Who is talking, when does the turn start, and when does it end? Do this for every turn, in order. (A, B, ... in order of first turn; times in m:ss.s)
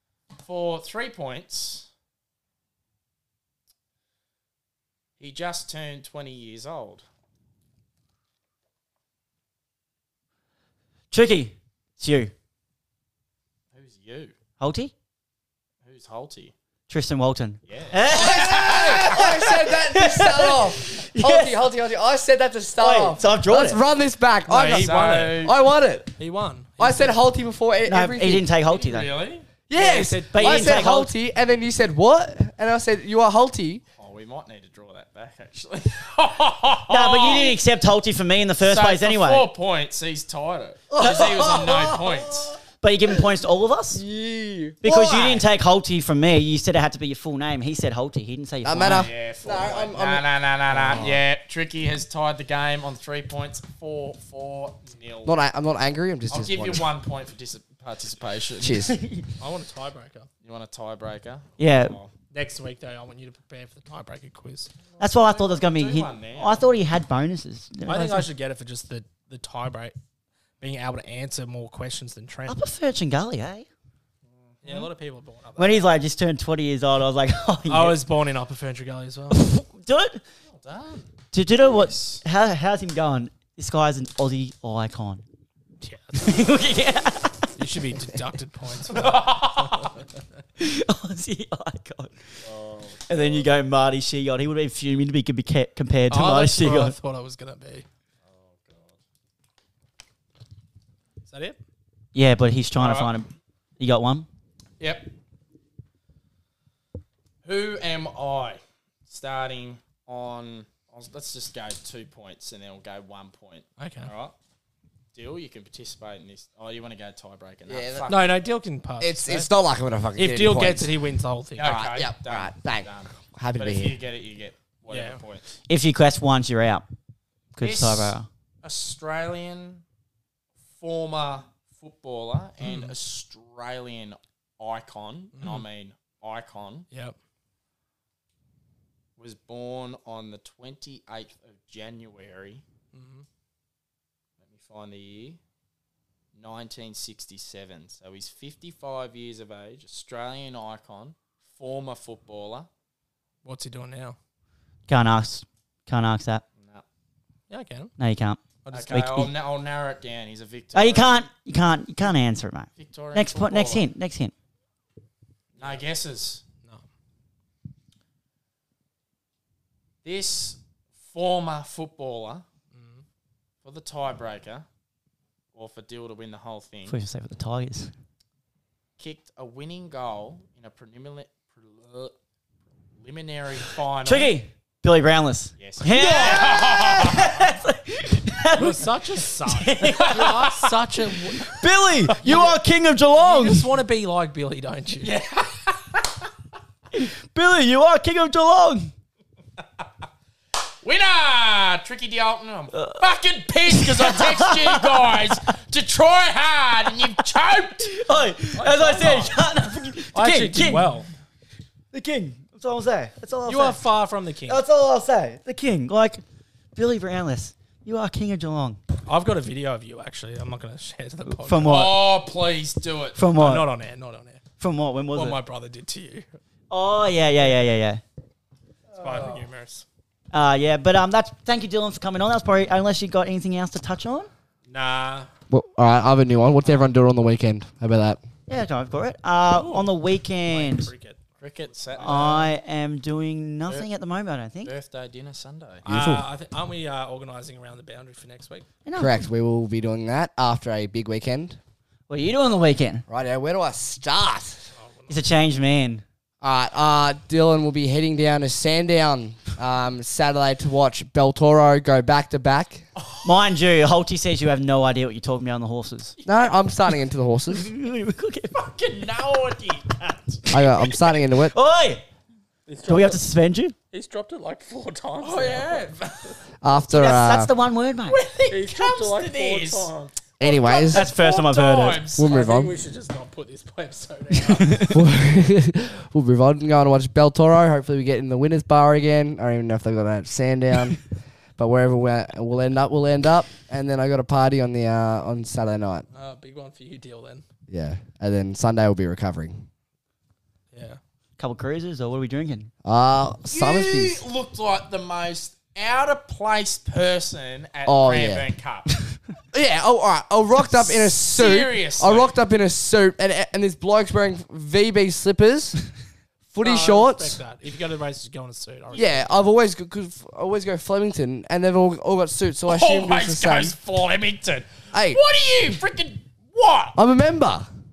0:00.4-0:01.9 A
0:05.2-0:07.0 A
0:11.1-0:12.3 B
0:13.7-0:14.3 A
0:14.6-0:14.9 B
0:15.8-0:16.5 A
0:16.9-0:21.6 B
0:17.7-0:19.2 A
0:18.1-0:26.1 C
0:22.8-0:23.8 B
0:24.5-0:25.4 D
0:24.5-0:25.5 A
0:26.2-0:27.2 D
0:26.8-0:28.5 C
0:27.8-0:29.1 B
0:28.7-0:29.5 A
0:29.7-0:33.8 C
0:29.7-0:30.9 D
0:30.3-0:31.1 B
0:34.0-0:37.6 A
0:36.9-0:39.5 B
0:38.6-0:42.5 A
0:40.9-0:42.5 C
0:42.8-0:44.0 B
0:43.9-0:45.4 C
0:44.8-0:49.1 B
0:48.6-0:51.2 C
0:48.8-0:55.3 A
0:55.2-0:56.9 C
0:56.3-0:58.8 A
0:58.6-0:59.0 C
0:58.9-0:59.2 B
0:59.4-1:00.3 D
1:00.4-1:02.1 A
1:01.6-1:02.0 B
1:02.3-1:04.7 D
1:05.0-1:08.3 B
1:05.0-1:06.6 A
1:07.8-1:09.9 D
1:10.6-1:12.6 D
1:12.5-1:13.7 B
1:14.5-1:14.8 A
1:14.6-1:15.9 D
1:15.6-1:18.0 B
1:17.7-1:19.4 D
1:19.3-1:20.2 B
1:20.5-1:21.1 A
1:21.3-1:25.2 B
1:21.6-1:22.2 A
1:25.8-1:26.5 D
1:26.2-1:27.5 B
1:27.6-1:29.9 D
1:28.9-1:29.9 A
1:30.6-1:32.1 B
1:32.4-1:33.5 A
1:33.1-1:36.9 B
1:36.1-1:37.8 D
1:38.2-1:39.0 A
1:41.3-1:41.6 D
1:42.1-1:44.3 B
1:42.8-1:43.1 A
1:44.8-1:45.1 A
1:47.4-1:54.3 A
1:53.8-1:54.1 D
1:55.1-1:58.4 A
1:57.7-1:58.1 C
1:58.1-1:59.5 D
1:59.0-2:00.9 C
2:00.2-2:01.7 D
2:01.6-2:05.4 A
2:01.6-2:04.0 C
2:04.9-2:05.2 D
2:05.7-2:06.8 B
2:07.5-2:08.3 B
2:07.6-2:09.8 A
2:10.8-2:16.8 A
2:12.6-2:12.9 D
2:15.4-2:15.6 D
2:19.2-2:22.6 A
2:22.9-2:23.2 D
2:24.4-2:25.4 A
2:26.3-2:32.7 A
2:33.4-2:34.2 D
2:34.9-2:36.4 B
2:37.5-2:37.9 D
2:38.0-2:39.3 B
2:38.6-2:39.1 D
2:38.7-2:41.1 A
2:40.7-2:44.3 B
2:42.8-2:43.8 A
2:45.5-2:46.4 A
2:50.0-2:52.4 A
2:52.7-2:53.0 D
2:53.6-2:54.6 A
2:55.5-2:57.0 A
2:56.9-2:57.9 B
2:59.0-3:02.1 A
3:03.0-3:04.3 A
3:04.0-3:10.2 B
3:05.6-3:07.4 A
3:08.5-3:11.6 D
3:09.9-3:10.7 A
3:11.5-3:13.7 B
3:12.1-3:12.6 D
3:13.2-3:15.2 D
3:15.0-3:16.0 A
3:16.9-3:18.9 B
3:20.8-3:27.9 A
3:22.7-3:23.1 B
3:23.7-3:25.5 B
3:27.8-3:30.9 B
3:28.5-3:29.4 D
3:30.1-3:31.1 D
3:31.9-3:33.8 B
3:33.5-3:34.6 D
3:34.5-3:36.2 B
3:36.7-3:38.8 B
3:39.0-3:41.9 D
3:41.3-3:42.0 B
3:41.6-3:43.2 A
3:43.1-3:43.7 B
3:43.3-3:44.4 D
3:44.6-3:45.4 B
3:45.1-3:46.3 D
3:46.7-3:48.0 B
3:49.0-3:49.4 A
3:49.0-3:49.8 D
3:50.3-3:54.3 B
3:54.7-3:55.3 D
3:55.5-3:58.2 C
3:58.5-4:00.9 B
3:59.5-3:59.9 D
4:00.4-4:02.4 D
4:01.4-4:02.5 A
4:02.0-4:04.7 B
4:04.6-4:05.8 A
4:05.8-4:08.6 D
4:05.9-4:06.2 C
4:08.8-4:09.3 B
4:09.0-4:11.6 C
4:12.1-4:13.0 B
4:13.1-4:14.6 C
4:14.7-4:15.2 D
4:15.1-4:16.0 B
4:16.4-4:22.8 C
4:23.0-4:23.3 A
4:23.2-4:26.2 B
4:26.2-4:27.7 C
4:27.5-4:28.6 B
4:28.5-4:30.4 A
4:30.5-4:32.0 B
4:30.5-4:31.5 C
4:32.7-4:33.2 D
4:32.8-4:33.8 B
4:33.9-4:35.9 D
4:35.2-4:36.3 A
4:36.6-4:37.5 C
4:36.9-4:38.2 B
4:38.1-4:42.3 A
4:38.5-4:40.1 D
4:40.4-4:41.1 C
4:40.8-4:42.0 B
4:42.2-4:42.7 C
4:42.2-4:44.9 D
4:44.6-4:44.9 B
4:44.9-4:56.0 C
4:56.1-4:57.4 D
4:57.7-4:59.6 C
5:00.7-5:01.0 D
5:01.4-5:02.7 B
5:02.8-5:04.2 C
5:03.5-5:08.9 A
5:07.8-5:08.5 C
5:09.5-5:15.8 C
5:10.7-5:12.3 A
5:16.5-5:17.4 C
5:16.6-5:19.3 D
5:18.9-5:23.8 C
5:22.6-5:27.0 A
5:24.9-5:25.2 C
5:27.0-5:27.7 C